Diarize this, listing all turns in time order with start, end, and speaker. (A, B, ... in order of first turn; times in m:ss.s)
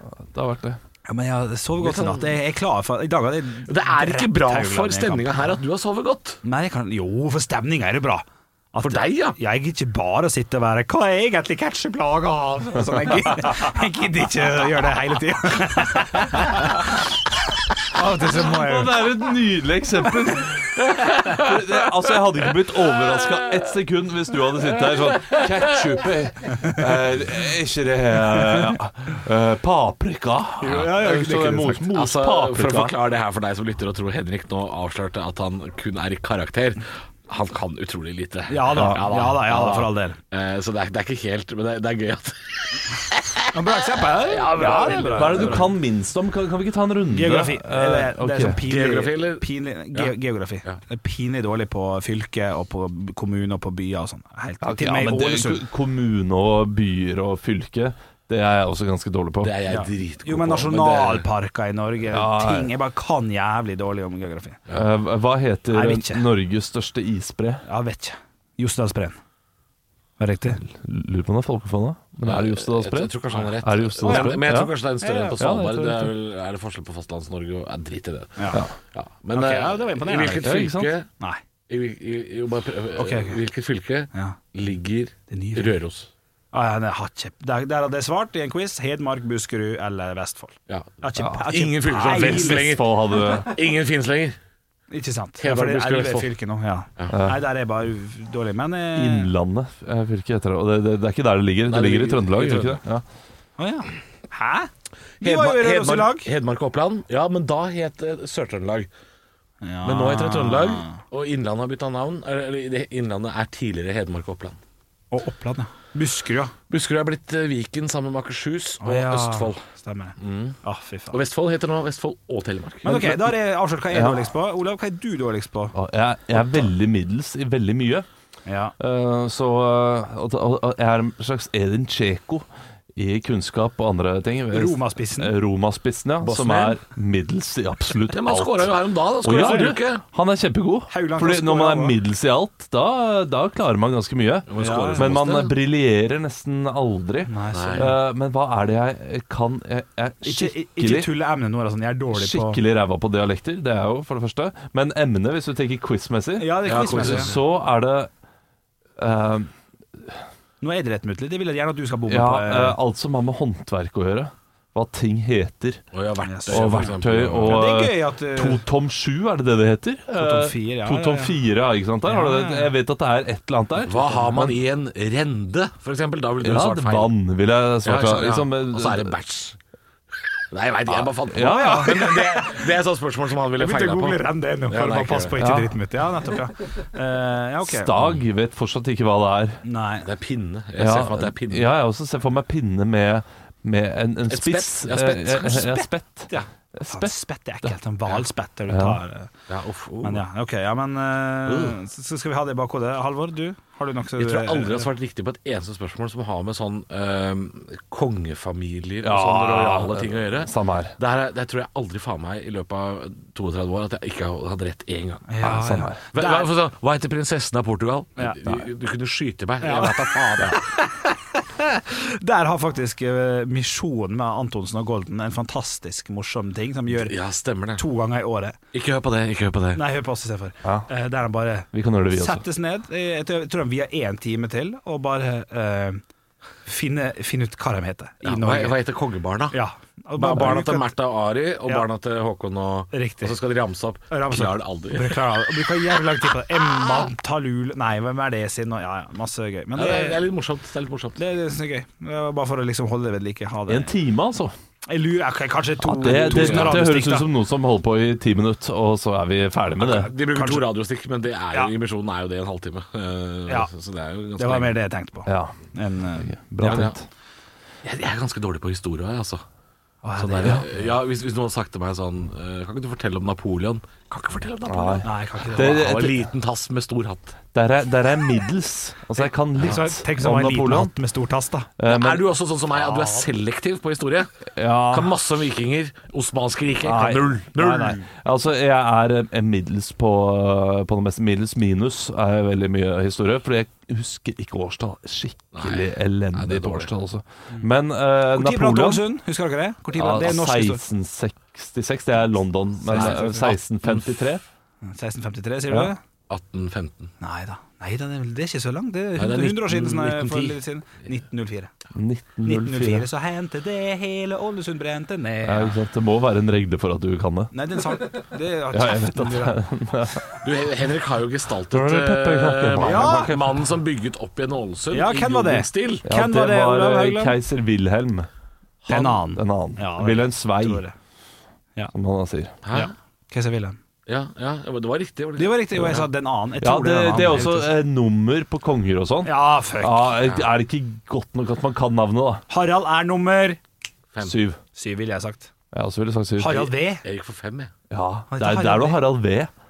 0:00.2-0:00.8 A
0:01.0-0:05.3 B
0:01.8-0:02.3 C
0:03.6-0:06.4 C
0:06.4-0:16.8 B
0:08.8-0:09.4 C
0:17.9-0:18.9 B
0:18.2-0:32.9 A
0:21.0-0:21.5 C
0:24.8-0:25.7 C
0:28.3-0:28.8 B
0:30.6-0:31.9 B
0:31.9-0:43.4 C
0:38.5-0:40.2 B
0:43.5-0:45.7 B
0:44.0-0:45.7 C
0:44.5-0:48.6 A
0:47.1-0:55.6 B
0:48.6-0:50.1 C
0:54.6-0:59.6 A
0:59.4-1:01.3 C
0:59.7-1:04.6 B
1:02.1-1:02.7 A
1:04.7-1:07.6 A
1:05.7-1:06.2 B
1:07.6-1:09.2 B
1:10.2-1:10.6 B
1:10.6-1:14.7 A
1:12.2-1:21.1 C
1:14.0-1:14.4 B
1:15.0-1:15.4 B
1:15.4-1:16.1 A
1:18.4-1:18.6 B
1:19.3-1:20.6 B
1:20.4-1:20.9 A
1:21.7-1:26.1 C
1:23.0-1:23.4 B
1:25.3-1:25.7 B
1:26.5-1:32.8 B
1:30.7-1:34.4 C
1:32.0-1:33.5 A
1:34.9-1:39.3 B
1:35.4-1:36.3 C
1:37.1-1:37.4 A
1:38.9-1:43.0 A
1:41.6-1:42.8 C
1:43.6-1:44.7 B
1:45.2-1:46.3 B
1:45.2-1:48.9 C
1:49.6-1:51.0 B
1:49.8-1:54.6 C
1:55.1-1:56.5 B
1:56.7-1:59.6 C
1:58.8-2:01.2 B
2:00.2-2:00.6 C
2:01.1-2:03.0 C
2:02.8-2:05.7 B
2:02.9-2:03.3 A
2:03.9-2:04.2 A
2:05.7-2:08.0 A
2:08.4-2:08.7 B
2:08.8-2:12.4 A
2:13.0-2:31.1 A
2:14.5-2:15.3 B
2:16.2-2:16.8 C
2:18.1-2:20.0 C
2:19.3-2:19.7 B
2:20.9-2:22.0 B
2:24.5-2:25.5 C
2:24.6-2:25.1 B
2:27.3-2:27.9 B
2:27.5-2:27.9 C
2:30.2-2:32.6 B
2:32.1-2:38.1 A
2:36.4-2:37.3 B
2:36.6-2:37.4 C
2:39.0-2:39.5 A
2:40.6-2:42.8 B
2:42.1-2:45.8 A
2:45.9-2:47.6 C
2:46.2-2:46.9 B
2:46.5-2:54.5 A
2:47.5-2:48.6 B
2:50.2-2:51.3 B
2:52.0-2:52.7 B
2:53.8-2:57.1 C
2:56.4-2:59.1 A
2:57.8-2:59.6 C
3:00.5-3:05.3 C
3:01.1-3:02.0 A
3:01.4-3:02.6 B
3:03.6-3:08.2 B
3:05.4-3:05.7 A
3:07.6-3:09.6 A
3:09.6-3:10.1 B
3:10.0-3:11.7 C
3:10.8-3:17.7 A
3:14.3-3:15.9 C
3:16.3-3:19.3 B
3:18.7-3:19.0 A
3:19.5-3:20.2 C
3:20.0-3:24.9 B
3:21.5-3:21.7 A
3:24.2-3:35.3 C
3:29.0-3:30.9 A
3:35.3-3:36.5 B
3:35.4-3:36.0 A
3:36.1-3:40.6 C
3:38.2-3:38.6 B
3:39.6-3:47.1 B
3:46.9-3:47.8 C
3:47.8-3:48.6 B
3:48.7-3:49.8 C
3:49.7-3:56.0 B
3:51.7-3:52.4 A
3:56.6-3:58.8 B
3:58.2-3:59.6 C
3:59.5-4:00.9 B
4:00.2-4:05.6 C
4:02.9-4:03.4 B
4:04.1-4:10.2 B
4:09.7-4:11.2 C
4:11.2-4:13.9 B
4:13.7-4:14.5 A
4:14.9-4:17.3 B
4:15.8-4:20.1 A
4:16.0-4:16.8 C
4:19.8-4:24.8 C
4:20.2-4:20.7 B
4:24.4-4:26.4 B
4:25.3-4:25.6 A
4:26.2-4:27.1 A
4:26.6-4:26.9 C
4:27.8-4:29.4 C
4:30.0-4:30.7 B
4:30.2-4:37.4 C
4:34.7-4:36.1 A
4:35.0-4:36.0 B
4:37.5-4:40.9 A
4:39.2-4:41.7 B
4:41.8-4:42.3 A
4:41.8-4:48.0 C
4:44.6-4:45.2 A
4:46.8-4:47.5 A
4:47.6-4:48.0 B
4:48.1-4:59.0 A
4:55.5-4:56.9 C
4:58.3-5:00.8 B
4:59.9-5:04.4 A
5:02.9-5:03.5 B
5:02.9-5:04.0 C
5:04.8-5:06.0 B
5:06.3-5:07.1 C
5:07.2-5:11.7 B
5:09.2-5:10.6 C
5:11.9-5:13.1 A
5:12.4-5:15.8 B
5:15.4-5:17.5 A
5:17.5-5:19.5 B
5:18.7-5:20.4 A
5:20.3-5:26.0 C
5:21.7-5:23.3 A
5:22.8-5:23.4 B
5:24.9-5:27.4 B
5:26.0-5:28.3 A
5:28.8-5:29.2 C
5:28.9-5:30.9 B
5:29.2-5:30.8 A
5:31.9-5:32.6 A
5:32.6-5:32.9 C
5:32.7-5:33.8 B
5:34.0-5:36.0 C
5:35.4-5:37.7 B
5:36.6-5:42.4 A
5:39.2-5:40.2 B
5:42.5-5:43.6 B
5:44.2-5:44.6 A
5:44.7-5:45.5 B
5:45.7-5:46.6 A
5:46.4-5:47.0 B
5:46.5-5:47.7 C
5:47.9-5:49.5 A
5:48.3-5:49.0 B